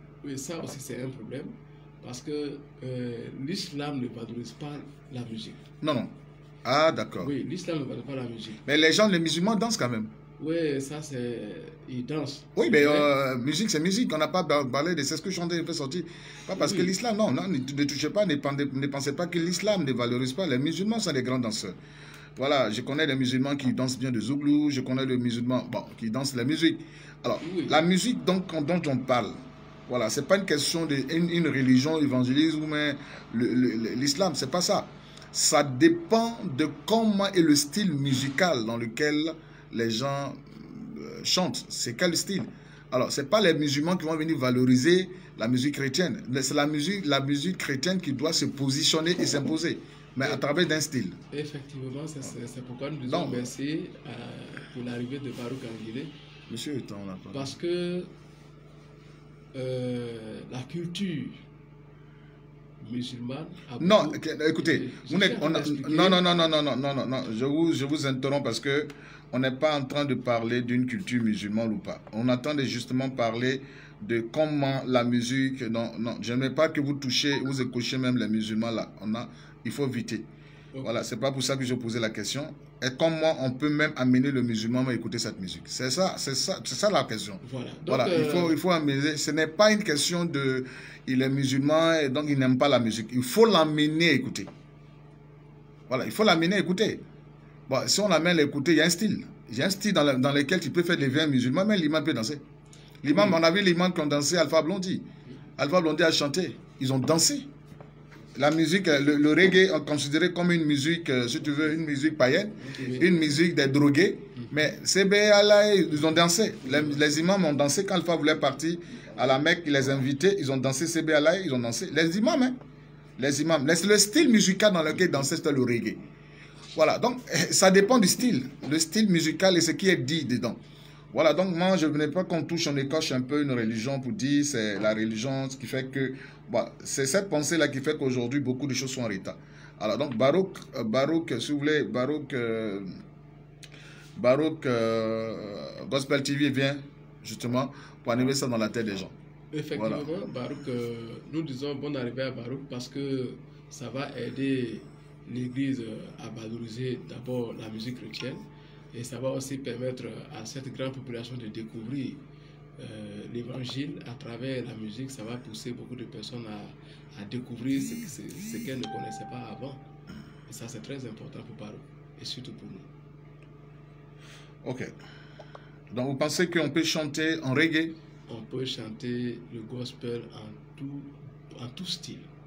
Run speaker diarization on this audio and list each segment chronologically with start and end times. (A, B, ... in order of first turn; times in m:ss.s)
0:00.2-0:05.6 A
0:05.8-0:07.3 B
0:07.2-0:08.6 A
0:08.6-0:10.1 B
0:10.4-0:13.1 A
0:12.6-0:21.8 B
0:16.6-0:16.9 A
0:22.4-0:51.2 B
0:27.4-0:27.8 A
0:51.3-0:56.1 A
0:53.1-0:53.5 B
0:56.5-0:57.5 B
0:57.3-0:58.1 A
0:59.5-1:01.4 A
1:02.8-1:06.2 A
1:03.8-1:20.3 B
1:20.8-1:34.5 B
1:27.4-1:28.6 A
1:35.9-1:37.0 B
1:37.7-1:42.4 B
1:43.0-1:45.0 B
1:43.1-1:43.4 A
1:45.6-1:47.5 B
1:48.3-2:02.6 B
1:52.6-1:53.1 A
1:56.7-1:57.0 A
2:03.2-2:06.0 B
2:06.7-2:10.6 B
2:11.1-2:23.0 B
2:24.2-2:29.1 B
2:29.5-2:42.2 A
2:29.7-2:30.1 B
2:42.8-2:49.8 A
2:50.5-2:52.9 A
2:54.6-2:54.9 B
2:55.9-2:57.9 B
2:58.3-3:02.3 A